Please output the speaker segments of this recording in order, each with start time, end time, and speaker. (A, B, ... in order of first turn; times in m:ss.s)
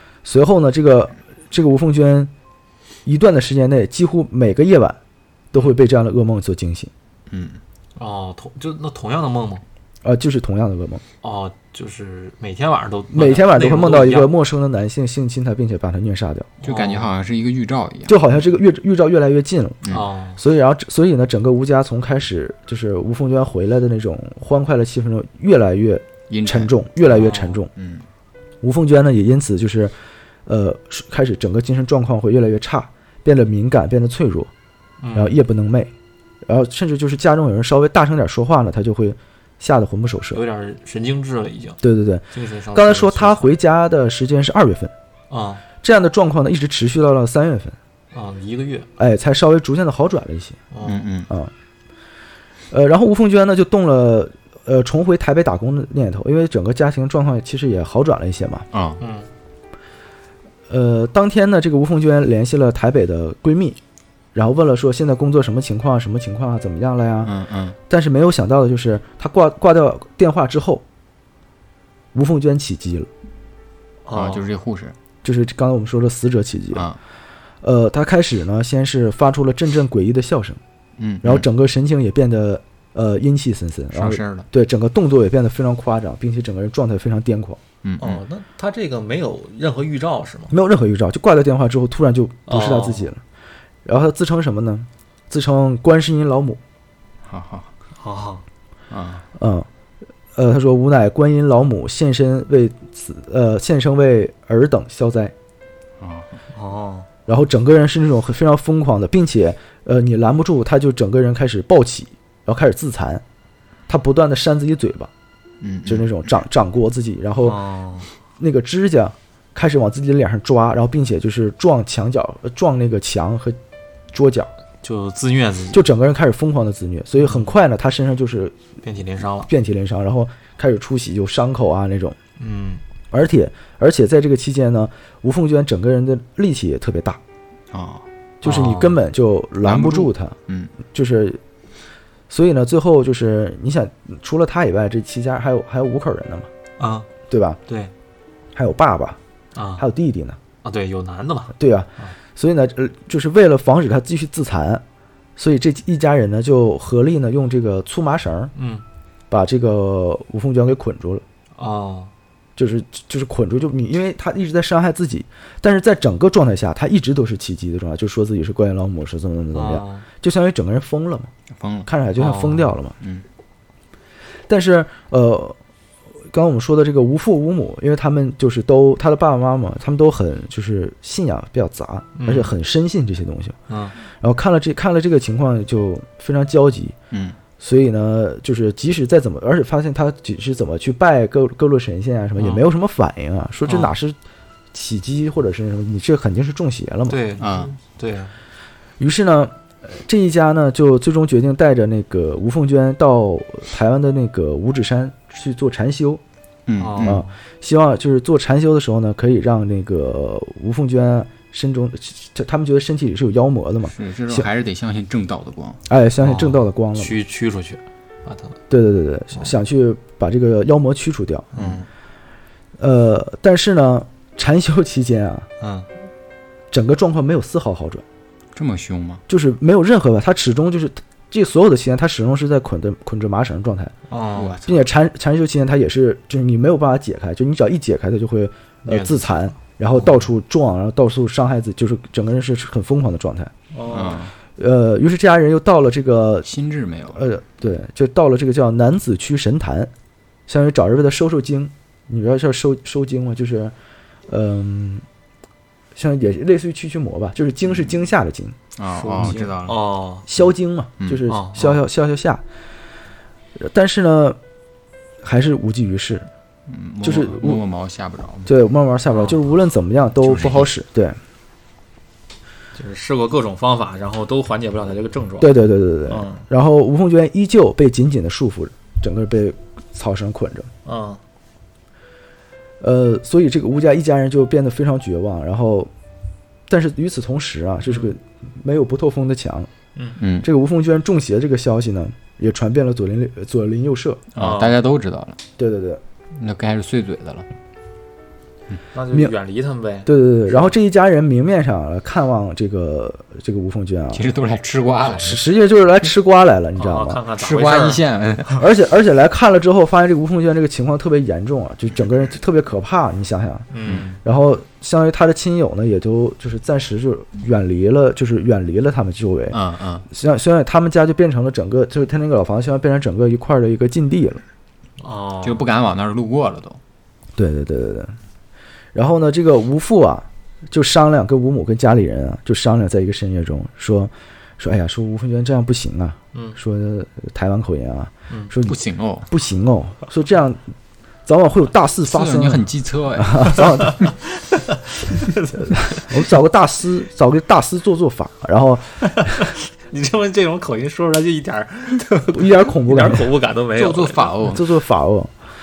0:00.2-0:02.3 A
0:03.0-0:05.0 A
0:05.5-0:06.9 A
0:07.3-0:07.6 B
0:08.0-0:09.6 C
0:10.0-0:11.0 A
0:11.2-0:14.3 C
0:13.1-0:16.5 A
0:16.6-0:17.1 C
0:16.6-0:18.2 B
0:18.1-0:27.7 A
0:19.8-0:20.1 B
0:19.9-0:20.4 C
0:26.3-0:26.7 B
0:27.0-0:27.6 C
0:27.7-0:28.0 B
0:28.6-0:29.9 A
0:30.4-0:34.5 A
0:35.0-0:35.4 C
0:35.1-0:35.9 A
0:36.4-0:40.4 A
0:40.3-0:43.5 C
0:41.8-0:44.9 A
0:45.3-0:45.6 C
0:45.8-0:47.8 A
0:48.1-0:48.9 C
0:49.0-0:50.6 A
0:50.7-0:51.1 C
0:50.8-0:51.3 B
0:52.7-0:58.6 A
0:58.7-0:59.0 B
0:59.0-0:59.3 C
1:00.7-1:03.8 A
1:04.4-1:07.3 A
1:07.2-1:07.8 B
1:07.9-1:10.8 A
1:12.1-1:13.1 A
1:14.0-1:14.5 C
1:14.1-1:14.9 B
1:15.2-1:16.9 A
1:16.7-1:17.0 B
1:17.6-1:20.6 A
1:21.0-1:21.4 B
1:21.2-1:27.6 A
1:23.9-1:24.5 B
1:27.8-1:28.2 B
1:28.0-1:30.5 C
1:30.5-1:33.2 A
1:32.5-1:33.1 C
1:33.8-1:36.6 A
1:37.2-1:37.7 B
1:38.0-1:38.4 C
1:38.9-1:39.2 B
1:39.4-1:39.7 A
1:40.4-1:45.3 A
1:46.0-1:46.4 B
1:46.5-1:47.1 C
1:47.2-1:53.2 A
1:53.9-1:55.1 A
1:55.6-1:56.1 B
1:55.8-1:57.6 A
1:57.4-1:58.1 C
1:58.4-2:03.6 A
2:04.1-2:04.5 A
2:04.8-2:05.8 C
2:05.7-2:08.6 A
2:07.2-2:07.5 C
2:08.8-2:09.5 C
2:09.4-2:12.2 A
2:12.4-2:12.8 C
2:13.1-2:17.2 A
2:17.7-2:18.0 B
2:18.4-2:20.3 A
2:18.4-2:19.0 C
2:19.6-2:20.7 B
2:20.9-2:21.4 A
2:22.3-2:26.5 A
2:26.8-2:27.1 C
2:27.3-2:27.6 A
2:28.5-2:29.2 A
2:29.5-2:29.8 C
2:29.8-2:30.4 A
2:30.6-2:32.1 C
2:31.6-2:34.8 A
2:35.4-2:38.5 A
2:38.5-2:38.8 C
2:39.3-2:41.2 A
2:41.6-2:42.1 C
2:42.6-2:51.3 A
2:49.5-2:50.0 C
2:51.5-2:51.9 B
2:51.9-2:52.9 A
2:52.1-2:52.7 C
2:54.5-2:55.6 A
2:56.3-3:03.6 A
3:02.2-3:02.5 C
3:03.7-3:04.0 C
3:04.2-3:07.0 A
3:07.1-3:07.4 B
3:07.6-3:14.2 A
3:12.4-3:12.7 C
3:13.7-3:14.0 C
3:14.7-3:17.2 A
3:17.1-3:18.3 C
3:17.4-3:17.7 B
3:19.0-3:26.2 A
3:26.7-3:27.2 B
3:26.8-3:27.3 C
3:27.0-3:34.5 A
3:33.9-3:35.8 B
3:35.9-3:37.2 A
3:36.2-3:38.6 C
3:38.7-3:41.5 A
3:41.5-3:41.8 C
3:41.5-3:41.9 B
3:42.8-3:45.5 A
3:45.6-3:45.9 C
3:46.7-3:48.0 A
3:48.5-3:49.2 B
3:49.3-3:53.9 A
3:54.1-3:54.6 C
3:54.3-3:54.9 B
3:54.7-4:03.5 A
3:58.9-3:59.2 B
4:03.7-4:04.2 C
4:03.9-4:04.3 B
4:04.6-4:06.5 A
4:06.4-4:07.2 B
4:07.1-4:09.9 A
4:10.5-4:13.7 A
4:14.3-4:15.0 A
4:16.0-4:18.6 A
4:18.8-4:19.8 B
4:18.9-4:20.2 C
4:20.3-4:22.4 A
4:21.3-4:21.8 C
4:23.6-4:24.4 A
4:25.2-4:26.3 A
4:26.7-4:28.5 B
4:27.0-4:27.6 A
4:28.5-4:31.2 A
4:30.2-4:30.7 B
4:32.8-4:36.4 C
4:35.4-4:40.7 A
4:40.8-4:41.2 C
4:42.8-4:45.9 A
4:46.7-4:49.7 A
4:50.2-4:50.5 B
4:50.4-4:54.2 A
4:54.3-4:55.4 B
4:54.4-4:54.8 C
4:55.6-4:56.0 A
4:56.3-4:57.5 B
4:58.9-5:00.7 C
5:00.0-5:04.2 A
5:04.1-5:05.4 B
5:05.1-5:07.2 A
5:06.8-5:08.0 C
5:07.4-5:08.6 B
5:08.6-5:13.7 A
5:13.7-5:14.2 C
5:14.2-5:24.4 A
5:19.5-5:20.0 B
5:25.0-5:25.7 C
5:25.4-5:26.8 B
5:27.4-5:28.1 A
5:28.9-5:40.6 A
5:38.6-5:39.3 B
5:41.2-5:44.0 A
5:42.0-5:43.9 B
5:44.0-5:45.7 C
5:45.5-5:49.5 A
5:49.2-5:54.4 C
5:52.3-5:53.3 A
5:53.7-5:54.7 B
5:54.4-5:55.3 A